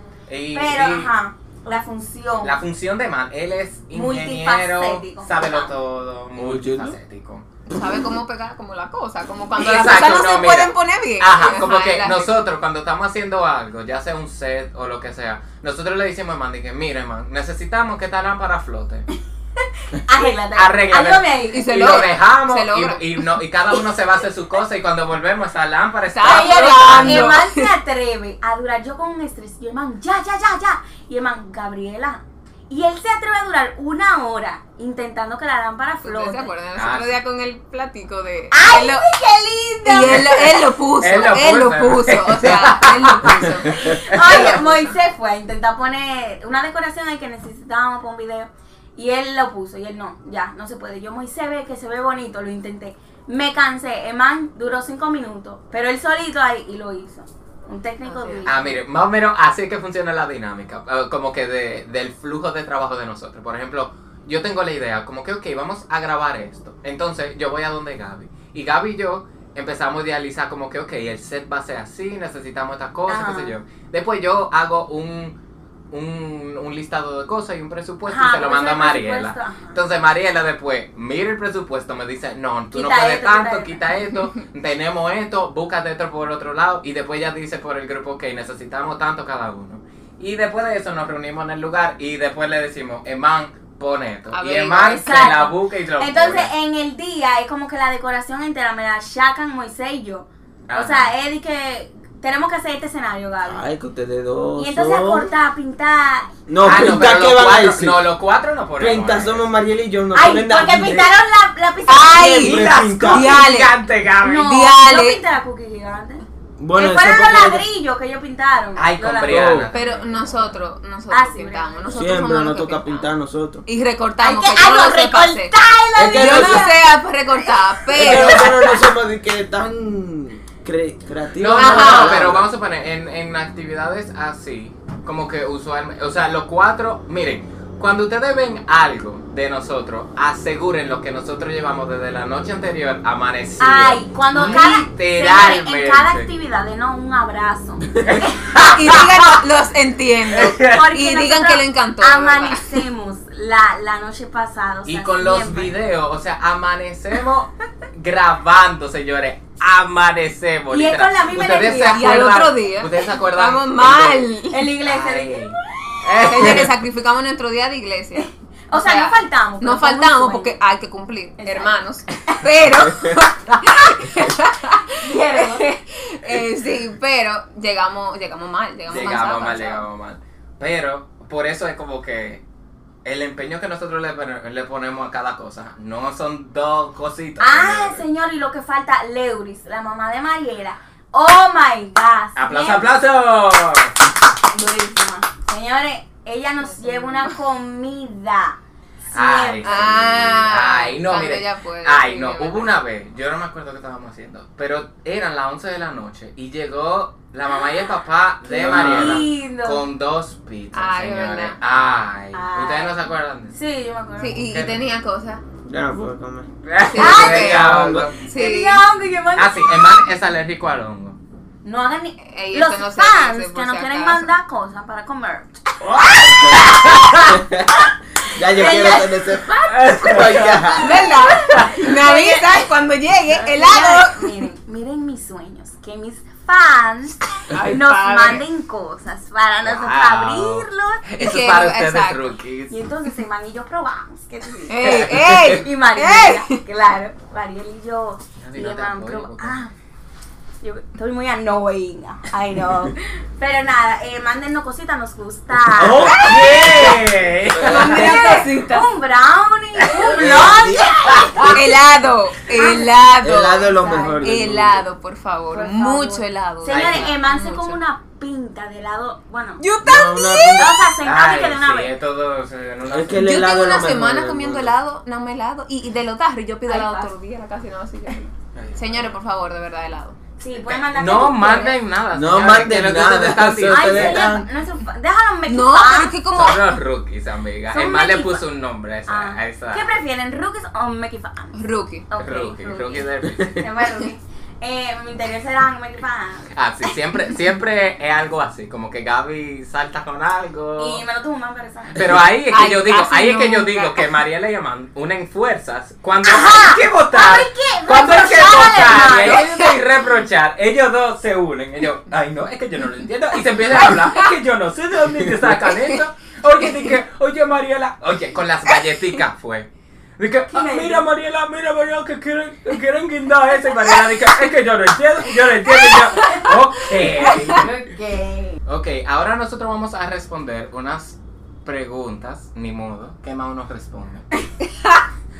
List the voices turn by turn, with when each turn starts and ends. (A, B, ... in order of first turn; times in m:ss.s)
0:00.3-0:01.1 A
0:00.5-0:02.6 B
0:02.4-0:07.4 A
0:03.9-0:05.7 B
0:06.3-0:07.0 C
0:07.7-0:12.4 D
0:09.6-0:19.1 A
0:19.8-0:22.1 B
0:20.5-0:27.4 A
0:21.5-0:23.4 D
0:26.1-0:27.7 D
0:26.2-0:36.5 B
0:36.0-0:39.1 D
0:36.7-0:37.1 A
0:38.5-0:40.6 B
0:39.8-0:44.9 D
0:41.0-0:44.6 A
0:43.7-0:58.7 B
0:58.0-0:58.5 D
0:58.4-1:15.4 A
1:13.1-1:13.6 B
1:15.9-1:36.5 A
1:18.1-1:19.8 B
1:22.7-1:23.8 B
1:34.3-1:35.4 D
1:34.9-1:43.6 B
1:40.7-1:41.1 A
1:43.4-1:45.3 C
1:44.6-1:46.3 B
1:46.5-1:48.1 C
1:46.6-1:49.5 A
1:48.8-1:51.1 C
1:50.1-1:52.6 B
1:51.9-1:53.8 D
1:52.1-1:53.3 C
1:52.4-1:54.5 A
1:54.2-1:59.7 B
1:54.3-1:55.2 D
1:56.6-1:57.6 C
1:58.8-2:00.6 A
1:59.2-1:59.7 C
1:59.7-2:03.1 D
2:01.1-2:02.1 B
2:01.9-2:03.6 C
2:03.6-2:05.5 D
2:04.2-2:08.8 B
2:05.9-2:06.7 C
2:06.1-2:08.6 D
2:07.9-2:12.5 C
2:11.4-2:26.3 A
2:11.5-2:12.3 D
2:23.6-2:28.6 B
2:28.0-2:29.1 A
2:28.7-2:32.8 D
2:30.3-2:30.8 A
2:30.6-2:35.8 B
2:34.8-2:44.3 A
2:40.7-2:42.2 B
2:41.7-2:44.7 D
2:44.5-2:45.5 B
2:44.8-2:46.7 A
2:46.2-2:59.9 D
2:48.1-2:50.6 B
2:51.4-2:51.8 B
2:55.0-2:55.7 B
2:58.9-3:02.4 A
3:03.0-3:08.0 A
3:07.4-3:12.9 B
3:12.3-3:14.0 A
3:14.5-3:18.6 B
3:16.6-3:17.4 D
3:19.1-3:19.9 B
3:19.1-3:33.5 A
3:19.6-3:22.7 D
3:28.4-3:29.8 B
3:28.6-3:29.2 C
3:30.7-3:31.6 D
3:32.3-3:33.0 B
3:33.5-3:34.4 B
3:34.2-3:35.4 D
3:34.4-3:34.8 A
3:35.6-3:36.5 C
3:36.6-3:38.2 A
3:36.8-3:38.8 D
3:36.9-3:37.6 B
3:37.0-3:38.1 C
3:38.3-3:39.9 B
3:39.4-3:41.2 A
3:41.6-3:46.6 B
3:42.2-3:44.3 D
3:45.8-3:47.4 A
3:47.3-3:47.7 C
3:48.2-3:51.0 C
3:48.4-3:52.7 B
3:49.7-3:50.7 A
3:50.8-3:54.4 D
3:51.5-3:51.8 A
3:53.3-4:01.0 B
3:57.5-3:58.4 D
3:59.6-4:02.8 A
4:01.2-4:02.3 D
4:02.7-4:09.7 B
4:04.7-4:06.6 D
4:04.8-4:05.6 A
4:08.4-4:09.6 A
4:10.6-4:16.2 B
4:15.6-4:18.3 C
4:16.0-4:16.9 D
4:16.1-4:18.3 A
4:17.6-4:18.9 D
4:17.7-4:21.8 B
4:19.9-4:21.6 A
4:20.0-4:21.4 C
4:21.4-4:27.8 D
4:22.5-4:22.9 B
4:23.2-4:24.8 C
4:23.6-4:24.3 B
4:25.5-4:29.6 B
4:26.6-4:27.1 A
4:29.6-4:30.7 D
4:29.8-4:30.7 C
4:30.6-4:32.0 B
4:31.0-4:33.5 A
4:32.8-4:34.7 C
4:33.2-4:40.2 D
4:36.6-4:37.1 B
4:38.5-4:39.1 A
4:40.4-4:41.8 B
4:40.6-4:44.2 A
4:42.1-4:44.5 C
4:43.7-4:46.2 B
4:45.5-4:46.8 D
4:46.3-4:49.9 A
4:47.7-4:48.4 B
4:49.0-4:56.5 B
4:51.5-4:52.0 D
4:52.2-4:53.7 A
4:53.3-4:53.5 C
4:56.5-5:01.0 A
5:00.8-5:02.2 B
5:01.9-5:27.7 A
5:02.5-5:04.1 D
5:06.2-5:09.4 B
5:09.0-5:09.7 D
5:13.7-5:14.4 D
5:15.6-5:16.0 D
5:16.6-5:17.0 D
5:20.5-5:21.0 B
5:26.2-5:26.5 B
5:27.2-5:28.6 B
5:28.6-5:34.3 A
5:34.6-5:35.0 D